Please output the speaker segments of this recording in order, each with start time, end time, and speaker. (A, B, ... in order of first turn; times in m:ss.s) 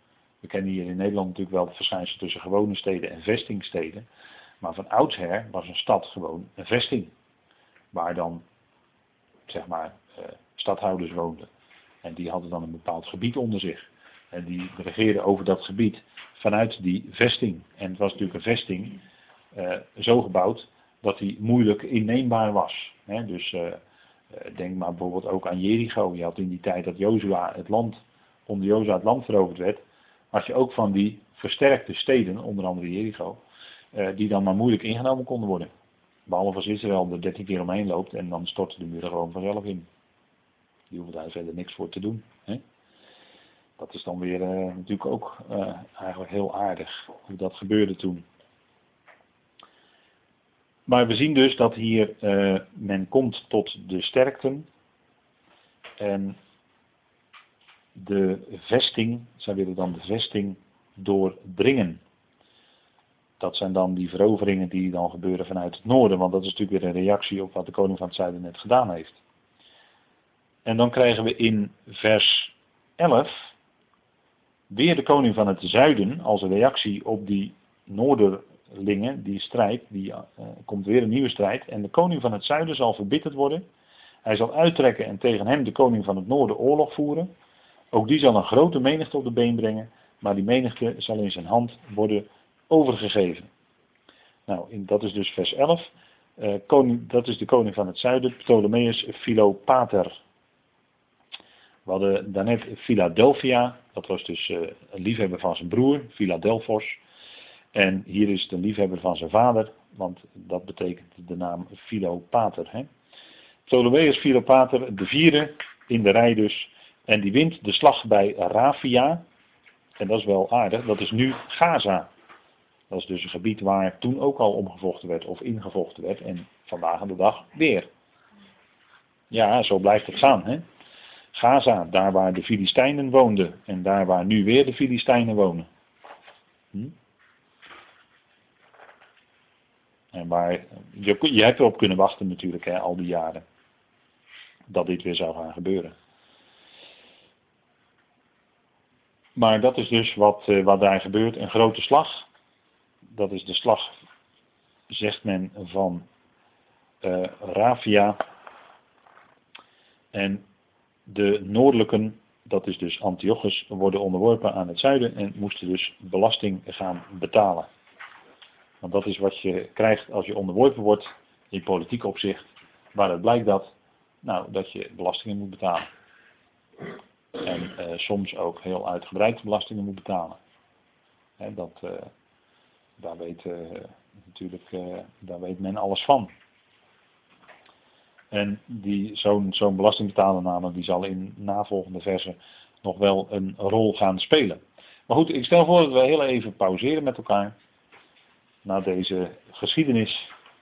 0:00.4-0:04.1 A
0:04.6-0:07.1 A
0:07.9-0:08.4 A
0:09.5-0:11.5 A
0:12.0-0:19.0 A
0:19.5-0:23.8 A
0:24.3-0:33.4 A
0:33.9-0:35.7 A
0:36.3-0:39.9 A
0:40.9-0:42.6 A
0:43.8-0:48.2 A
0:50.9-0:54.7 A
0:56.0-0:56.4 A
0:58.0-1:02.0 A
1:03.4-1:09.2 A
1:10.6-1:13.5 A
1:14.7-1:23.6 A
1:24.2-1:27.3 A
1:27.9-1:33.5 A
1:34.5-1:40.2 A
1:41.9-1:47.0 A
1:47.7-1:52.9 A
1:53.7-1:59.2 A
2:00.0-2:02.1 A
2:02.9-2:07.9 A
2:09.3-2:10.6 A
2:11.3-2:15.7 A
2:20.1-2:23.4 A
2:24.7-2:25.9 A
2:29.4-2:32.3 A
2:33.1-2:34.0 A
2:34.9-2:36.0 A
2:37.0-2:38.2 A
2:40.1-2:40.5 A
2:41.1-2:47.7 A
2:48.8-2:52.4 A
2:52.9-2:53.7 A
2:54.2-2:55.9 A
2:57.4-3:00.4 A
3:01.4-3:02.1 A
3:03.0-3:06.3 A
3:08.3-3:17.5 A
3:18.6-3:20.3 A